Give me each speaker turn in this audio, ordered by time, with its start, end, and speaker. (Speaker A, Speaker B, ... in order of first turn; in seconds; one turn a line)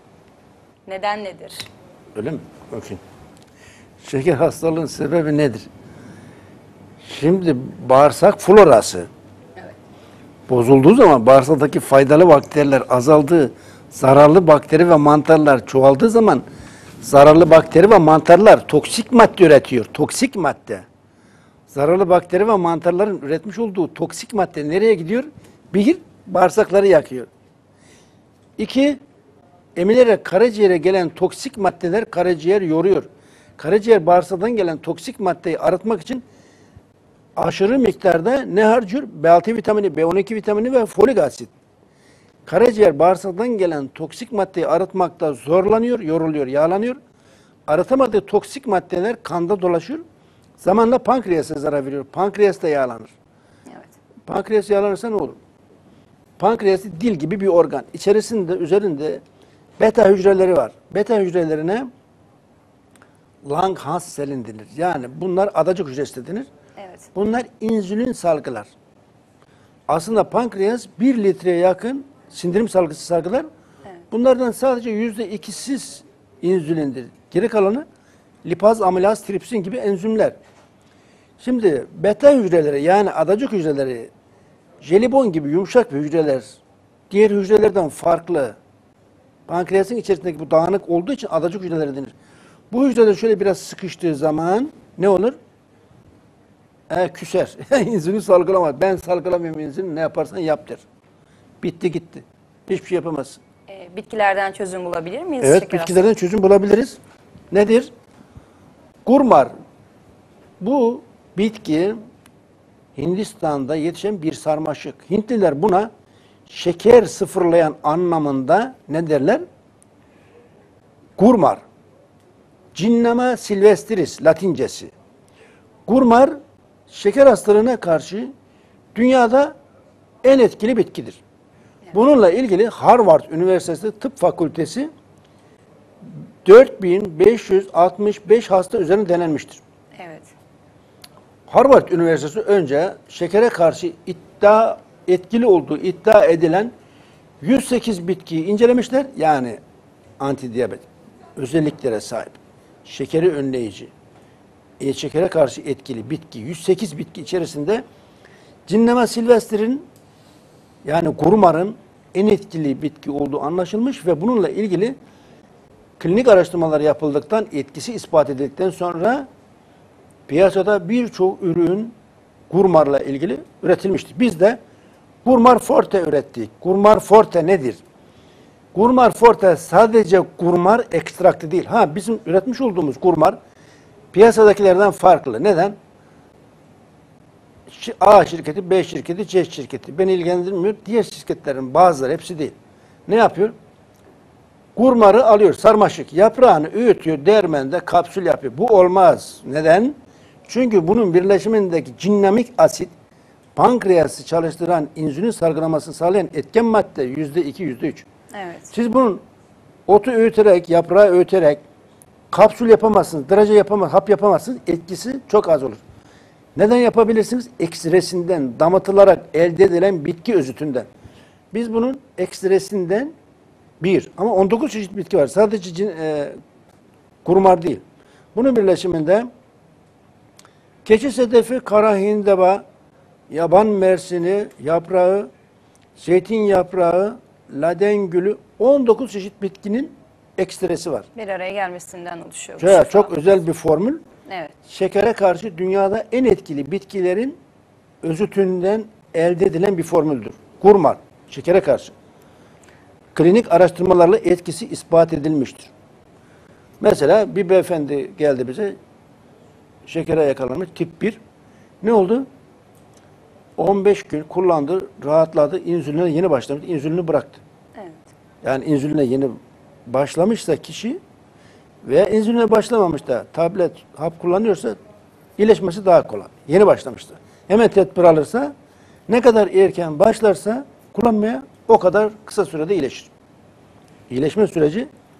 Speaker A: 0.8-1.6
Speaker B: 2.1-3.0
Speaker B: 4.0-5.7
Speaker B: 7.0-9.1
Speaker B: 10.5-16.4
Speaker B: 17.0-20.9
Speaker B: 21.7-27.3
Speaker B: 28.6-29.0
Speaker B: 29.8-36.2
Speaker B: 37.4-41.5
Speaker B: 42.5-47.0
Speaker B: 47.7-50.0
Speaker B: 50.6-53.1
Speaker A: 53.7-53.9
Speaker B: 54.2-55.4
Speaker B: 56.4-59.2
Speaker B: 59.8-61.9
Speaker B: 63.4-66.5
Speaker A: 66.8-67.1
Speaker B: 67.1-68.7
Speaker B: 69.9-73.5
Speaker B: 74.1-77.8
Speaker B: 78.4-80.3
Speaker B: 81.4-84.1
Speaker B: 84.8-86.6
Speaker B: 87.1-88.5
Speaker B: 89.5-92.1
Speaker B: 92.7-95.4
Speaker B: 96.9-100.8
Speaker B: 101.6-103.4
Speaker A: 103.7-106.1
Speaker B: 105.4-107.0
Speaker B: 107.5-107.9
Speaker B: 109.0-109.5
Speaker B: 110.6-112.0
Speaker B: 113.0-115.9
Speaker B: 116.5-119.4
Speaker B: 121.2-121.6
Speaker B: 122.7-124.9
Speaker B: 125.9-126.3
Speaker B: 126.9-128.3
Speaker B: 128.9-129.5
Speaker B: 130.2-131.2
Speaker B: 131.9-134.9
Speaker B: 136.4-139.6
Speaker A: 139.9-140.3
Speaker B: 141.5-146.7
Speaker B: 147.4-149.6
Speaker B: 150.2-153.9
Speaker B: 154.8-157.8
Speaker B: 158.7-159.9
Speaker B: 160.8-164.9
Speaker B: 166.0-169.3
Speaker B: 170.3-171.9
Speaker B: 172.5-174.6
Speaker B: 175.2-177.8
Speaker B: 178.7-183.4
Speaker B: 184.1-185.8
Speaker B: 187.7-192.5
Speaker B: 193.1-193.5
Speaker B: 194.8-202.9
Speaker B: 203.5-208.0
Speaker A: 208.3-208.7
Speaker B: 208.7-209.2
Speaker B: 209.9-211.6
Speaker B: 212.3-215.8
Speaker B: 216.6-220.9
Speaker B: 221.5-223.1
Speaker B: 223.8-226.3
Speaker B: 227.2-227.8
Speaker B: 228.3-229.3
Speaker B: 230.8-232.6
Speaker B: 233.3-235.3
Speaker B: 235.9-241.1
Speaker A: 241.1-243.3
Speaker B: 242.6-244.0
Speaker A: 244.2-244.5
Speaker B: 244.7-247.3
Speaker B: 248.0-251.9
Speaker B: 253.1-255.7
Speaker B: 256.8-258.8
Speaker B: 259.9-261.2
Speaker B: 261.8-262.3
Speaker B: 263.6-267.4
Speaker A: 267.8-268.1
Speaker B: 268.4-269.3
Speaker B: 269.9-271.0
Speaker B: 271.8-274.8
Speaker B: 275.4-278.5
Speaker B: 279.1-283.1
Speaker B: 284.1-284.9